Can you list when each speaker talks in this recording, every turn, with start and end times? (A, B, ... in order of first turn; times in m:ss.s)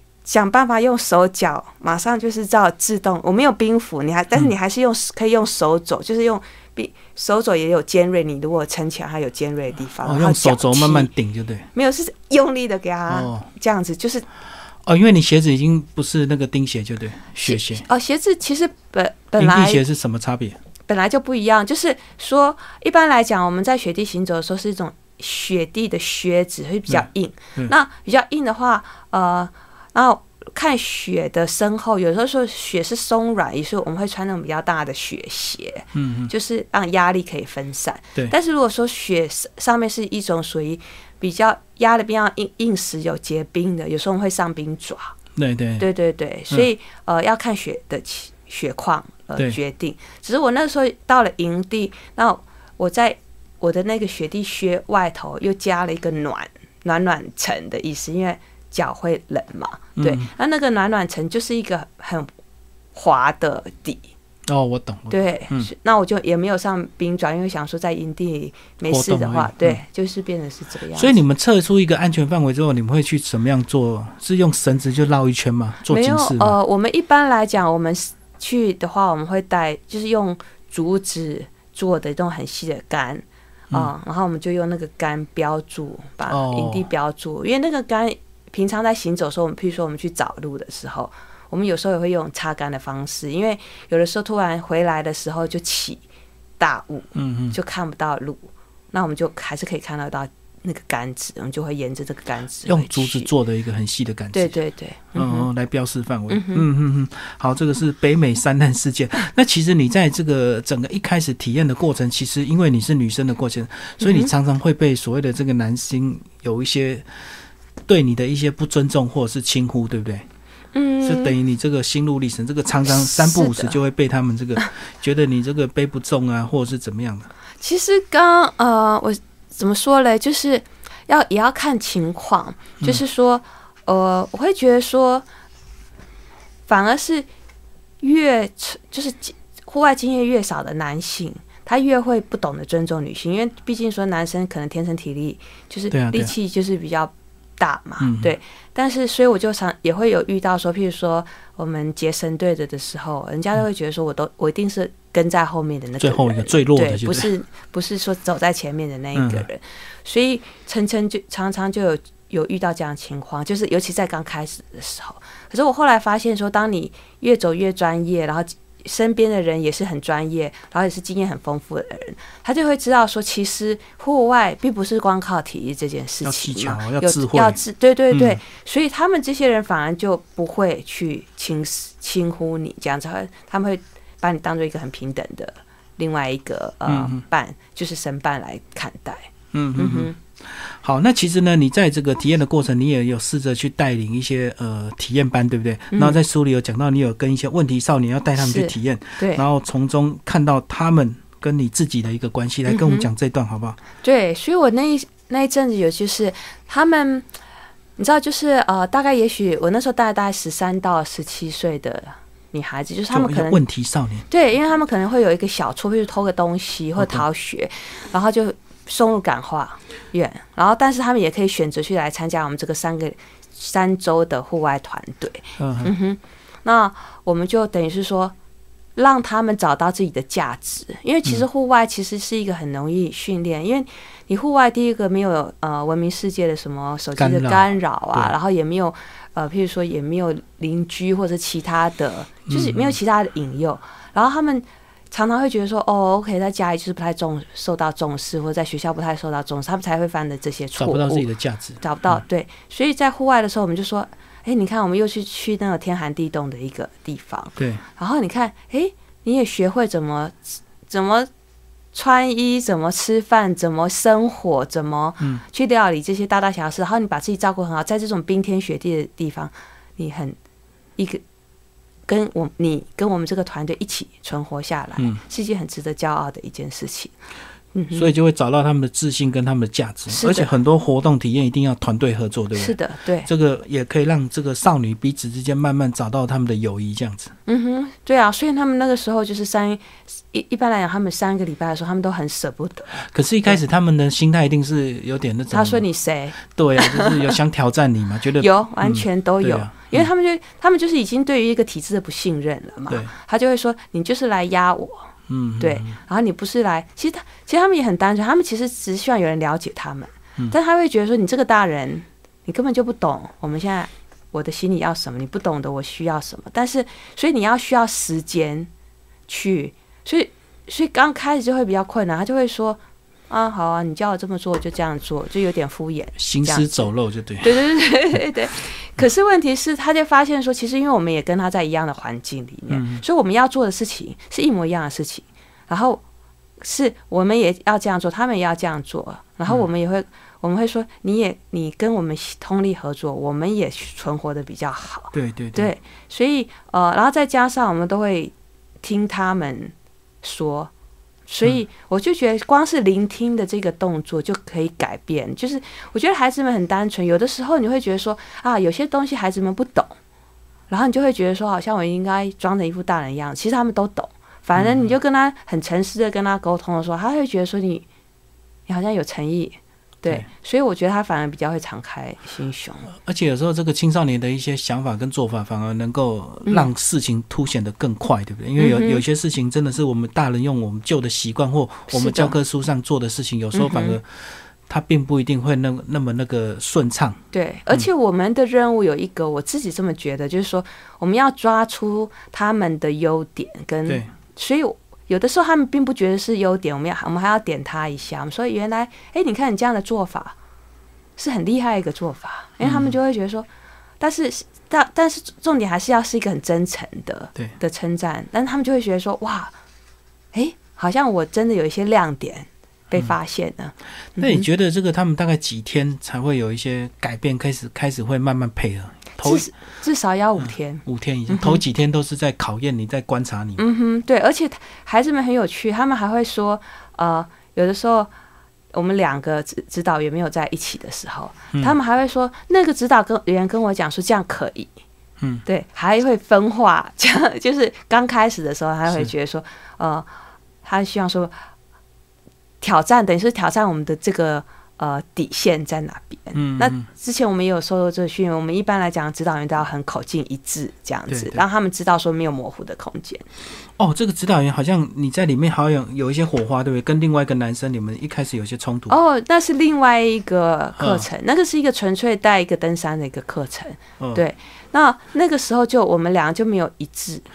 0:00.2-0:11.1 A
0:10.0-0:11.7 B
0:11.7-0:14.2 A
0:13.1-0:13.5 B
0:14.8-0:17.8 B
0:17.4-0:19.8 A
0:19.4-0:20.6 B
0:20.9-0:45.1 A
0:26.9-0:27.7 B
0:35.9-0:36.3 B
0:45.4-0:45.9 B
0:45.8-1:02.3 A
1:00.0-1:00.3 B
1:02.9-1:04.0 A
1:04.5-1:05.7 B
1:05.1-1:11.2 A
1:08.8-1:09.8 B
1:10.9-1:16.5 B
1:15.9-1:36.0 A
1:26.3-1:26.9 B
1:36.6-1:43.3 A
1:37.1-1:37.6 B
1:42.6-1:44.6 B
1:44.3-1:45.5 A
1:45.1-1:57.0 B
1:46.3-1:46.6 A
1:54.0-1:54.3 A
1:57.9-2:00.2 B
2:00.7-2:01.3 A
2:01.0-2:07.3 B
2:02.9-2:03.8 A
2:07.6-2:15.2 A
2:16.7-2:17.3 A
2:18.0-3:10.2 A
2:25.9-2:26.3 B
2:28.0-2:28.3 B
2:36.0-2:37.3 B
2:39.1-2:39.5 B
2:56.2-2:57.6 B
2:58.1-2:58.4 B
3:06.8-3:07.2 B
3:09.5-3:23.8 B
3:15.9-3:16.2 A
3:18.4-3:19.4 A
3:22.7-3:23.1 A
3:24.0-3:27.3 A
3:28.0-3:33.6 A
3:33.1-3:34.2 B
3:34.3-3:48.3 A
3:37.0-3:37.2 B
3:45.6-3:45.9 B
3:49.0-4:11.3 A
3:57.2-3:58.3 B
4:02.5-4:03.0 B
4:10.8-4:12.2 B
4:11.8-4:21.3 A
4:17.6-4:17.8 B
4:21.9-4:30.4 A
4:31.0-4:31.2 A
4:32.1-4:37.1 A
4:37.7-4:38.1 A
4:37.9-4:47.3 B
4:40.1-4:40.5 A
4:42.5-4:43.3 A
4:47.5-4:53.6 A
4:53.0-4:55.8 B
4:55.5-4:57.4 A
4:56.4-5:00.1 B
4:58.4-5:05.1 A
5:05.3-5:06.0 B
5:05.6-5:18.7 A
5:19.3-5:26.9 A
5:26.2-5:27.6 B
5:27.4-5:36.0 A
5:32.7-5:33.0 B
5:36.6-5:50.7 A
5:45.1-5:45.7 B
5:51.3-6:00.0 A
6:00.7-6:07.8 A
6:04.6-6:04.9 B
6:08.7-6:12.9 A
6:12.9-6:27.2 B
6:18.6-6:19.0 A
6:21.9-6:22.4 A
6:23.5-6:24.0 A
6:27.3-6:40.4 A
6:41.2-6:43.5 A
6:42.6-6:43.0 B
6:44.0-6:49.5 A
6:50.3-6:54.5 A
6:54.2-6:59.5 B
6:59.2-7:01.6 A
7:00.4-7:03.6 B
7:03.6-7:08.1 A
7:08.7-7:14.7 A
7:15.4-7:20.1 A
7:20.6-7:21.3 A
7:22.6-7:33.2 A
7:26.3-7:26.9 B
7:31.1-7:31.4 B
7:33.8-7:39.0 B
7:38.9-7:47.2 A
7:40.8-7:41.0 B
7:44.0-7:44.2 B